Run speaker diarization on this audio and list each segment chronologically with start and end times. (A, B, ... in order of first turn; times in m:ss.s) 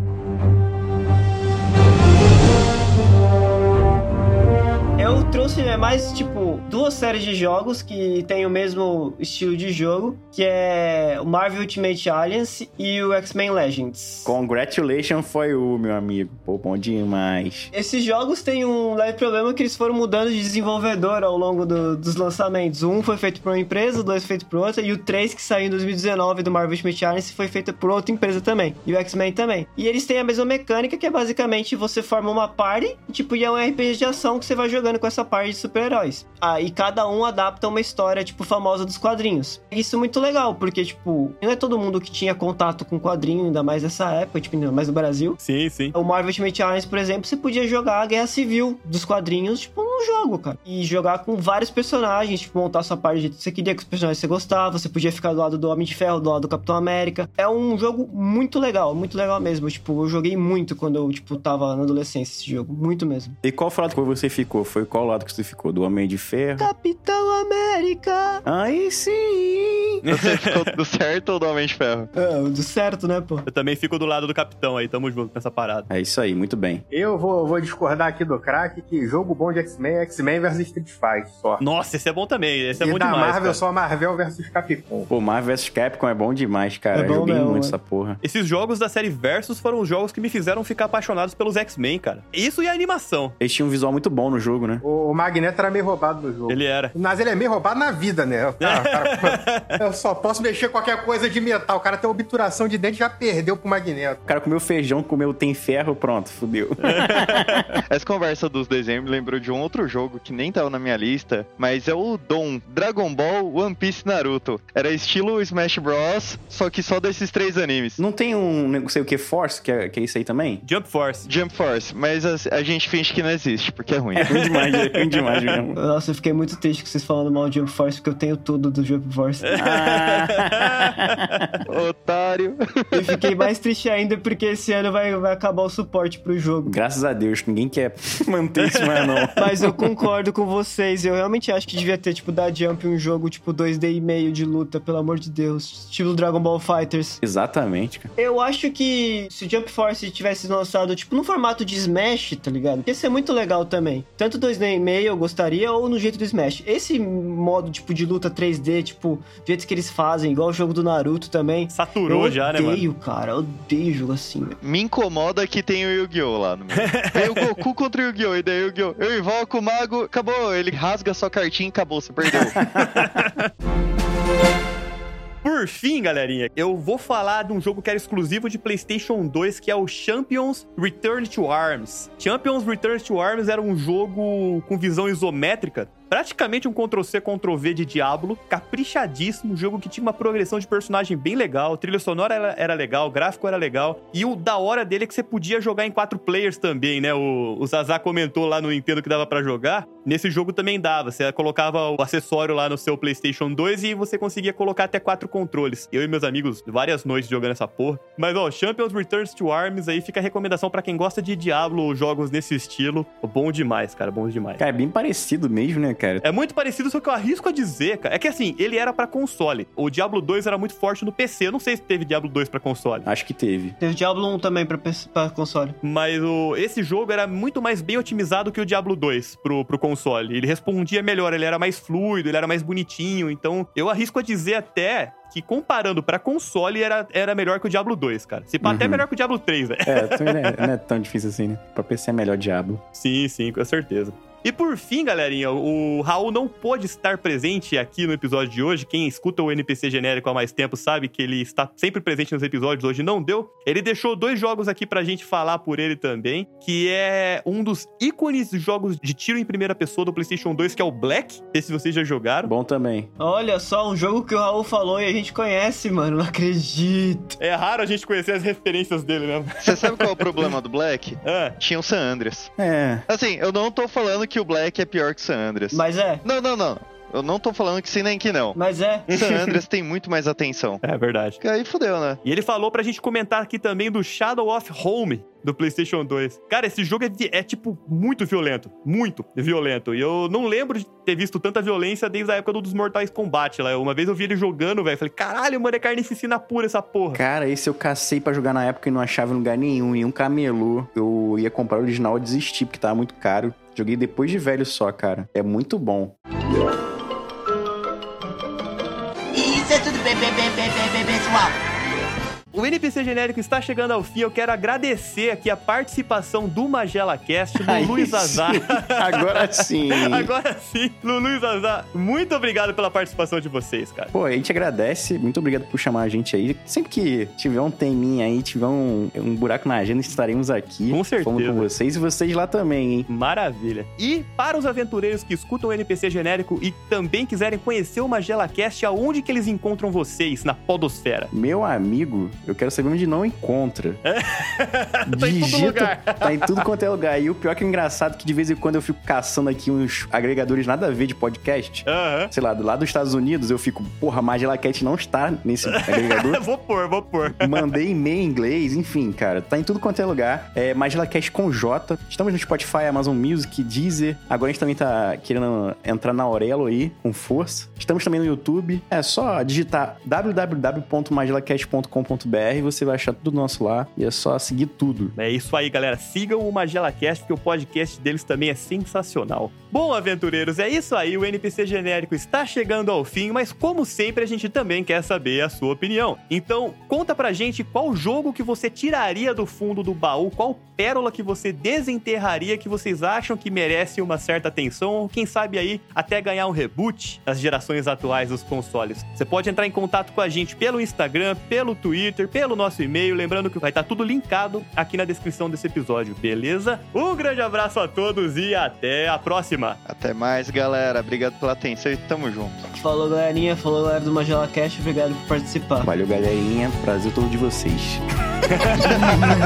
0:05.0-0:14.3 A
0:14.2-0:17.7 B
0:17.7-0:45.4 A
0:45.4-0:45.9 C
0:45.9-1:03.4 A
1:03.4-1:06.7 B
1:06.6-1:08.4 A
1:08.4-1:10.0 B
1:10.0-1:10.7 C
1:10.1-1:12.1 D
1:12.1-1:13.5 A
1:13.5-1:15.9 C
1:15.9-1:16.8 B
1:16.9-1:21.6 E
1:21.6-1:23.6 C
1:22.8-1:25.1 E
1:25.1-1:28.2 B
1:26.9-1:27.8 A
1:28.2-1:33.4 C
1:33.4-1:34.8 B
1:34.8-1:44.2 E
1:36.5-1:36.9 C
1:38.6-1:39.8 C
1:44.3-1:47.7 B
1:46.8-1:47.8 C
1:47.9-1:58.0 D
1:58.0-2:00.6 B
2:00.6-2:01.3 C
2:01.2-2:04.2 D
2:04.2-2:05.6 C
2:04.3-2:05.8 B
2:05.8-2:09.6 A
2:09.4-2:11.5 C
2:09.6-2:11.5 B
2:11.7-2:13.1 D
2:12.9-2:16.8 A
2:16.6-2:19.4 B
2:18.6-2:19.3 C
2:19.4-2:27.2 A
2:27.2-2:28.1 B
2:28.2-2:44.6 A
2:41.7-2:42.8 C
2:44.6-2:52.6 D
2:46.8-2:47.6 C
2:52.3-2:53.5 C
2:52.7-2:53.2 B
2:55.4-3:34.6 C
3:34.6-3:36.2 B
3:36.2-3:43.1 C
3:43.0-3:43.8 B
3:43.8-3:45.8 A
3:45.8-4:00.7 C
3:58.6-3:59.0 B
3:59.9-4:02.8 B
4:02.9-4:22.5 C
4:22.4-4:23.1 B
4:23.2-4:27.4 A
4:27.4-4:30.5 C
4:29.6-4:32.5 D
4:31.2-4:31.6 C
4:32.6-4:33.0 B
4:33.1-4:38.6 D
4:35.7-4:36.2 A
4:38.6-4:39.1 A
4:39.1-4:40.8 D
4:39.1-4:39.6 C
4:40.8-4:41.4 C
4:41.4-4:42.2 D
4:42.2-4:57.2 C
4:57.1-5:06.1 B
5:09.4-5:11.5 F
5:12.5-5:24.1 C
5:17.6-5:20.3 B
5:24.1-5:33.1 B
5:30.9-5:31.7 C
5:33.1-5:41.3 C
5:41.3-5:44.0 B
5:44.1-5:46.6 C
5:45.0-5:56.4 B
5:51.9-5:52.3 C
5:55.6-5:57.7 C
5:57.3-6:15.1 B
6:15.2-6:49.8 C
6:49.8-6:52.6 D
6:52.7-6:55.9 A
6:55.8-6:58.0 B
6:58.7-6:59.3 D